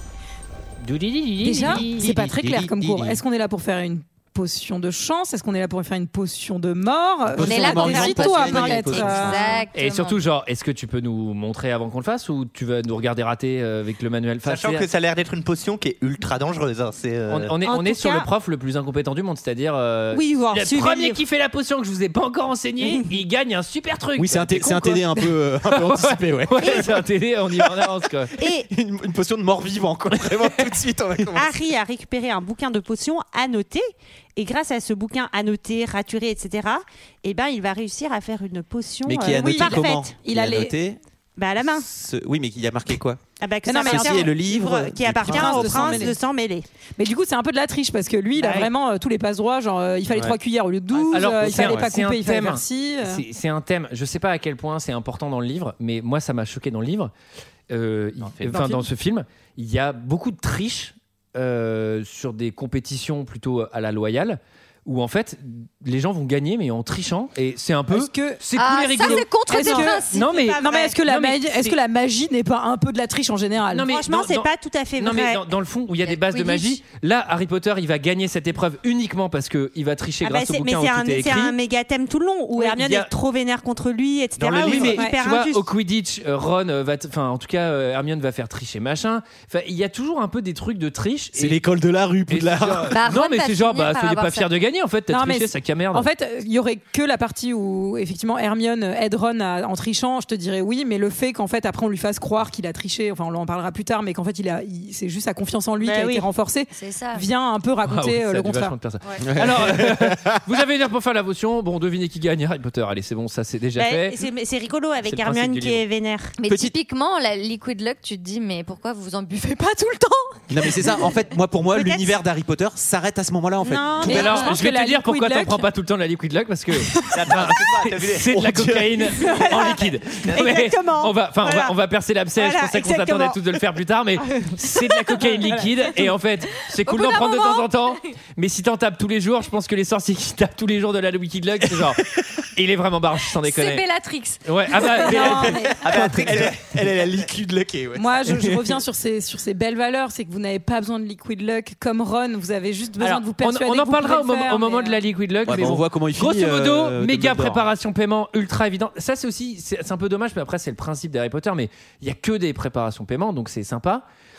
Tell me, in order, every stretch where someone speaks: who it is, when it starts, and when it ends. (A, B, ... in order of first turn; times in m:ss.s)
0:00.8-0:02.1 A
0:01.4-0:09.6 B
0:01.6-0:03.2 C
0:07.3-0:09.6 C
0:07.4-0:10.2 D
0:07.8-0:09.0 E
0:09.7-0:14.9 A
0:14.4-0:17.6 F
0:17.3-0:28.3 A
0:17.6-0:18.3 E
0:20.1-0:21.2 E
0:24.2-0:27.0 C
0:28.4-0:28.7 E
0:28.6-0:31.6 C
0:30.2-0:30.6 A
0:31.3-0:40.2 E
0:39.0-0:41.0 C
0:39.4-0:40.8 B
0:41.4-0:41.9 E
0:41.7-0:43.2 C
0:43.4-0:46.7 E
0:43.7-0:44.4 B
0:43.8-0:46.1 C
0:45.2-0:46.2 B
0:47.0-0:53.2 B
0:48.4-0:48.7 A
0:50.9-0:51.9 C
0:51.1-0:57.1 A
0:57.7-1:11.8 A
0:58.3-0:58.8 C
1:07.9-1:08.4 B
1:08.6-1:10.2 D
1:09.0-1:13.9 B
1:09.6-1:10.9 E
1:13.7-1:21.6 A
1:13.8-1:15.4 E
1:16.1-1:16.6 D
1:20.2-1:25.7 E
1:22.6-1:23.1 A
1:24.4-1:25.0 F
1:24.5-1:31.6 A
1:31.3-1:33.0 C
1:32.3-1:36.1 A
1:32.9-1:34.5 D
1:35.1-1:48.8 B
1:45.8-1:46.3 E
1:46.7-1:47.3 D
1:47.8-1:54.2 A
1:49.2-1:50.4 C
1:53.8-1:56.4 E
1:55.0-1:55.8 A
1:56.4-2:00.8 D
1:56.5-1:56.8 C
2:00.5-2:04.5 C
2:01.7-2:02.1 E
2:03.6-2:04.3 E
2:03.9-2:05.7 B
2:04.0-2:23.8 A
2:07.1-2:08.3 F
2:08.3-2:09.0 C
2:09.2-2:11.8 E
2:12.4-2:13.4 E
2:14.4-2:15.6 E
2:16.9-2:18.0 D
2:23.4-2:25.2 D
2:24.4-2:25.6 A
2:24.9-2:26.3 B
2:25.3-2:28.5 C
2:25.8-2:27.2 F
2:28.0-2:35.0 B
2:33.0-2:44.0 A
2:35.4-2:37.7 C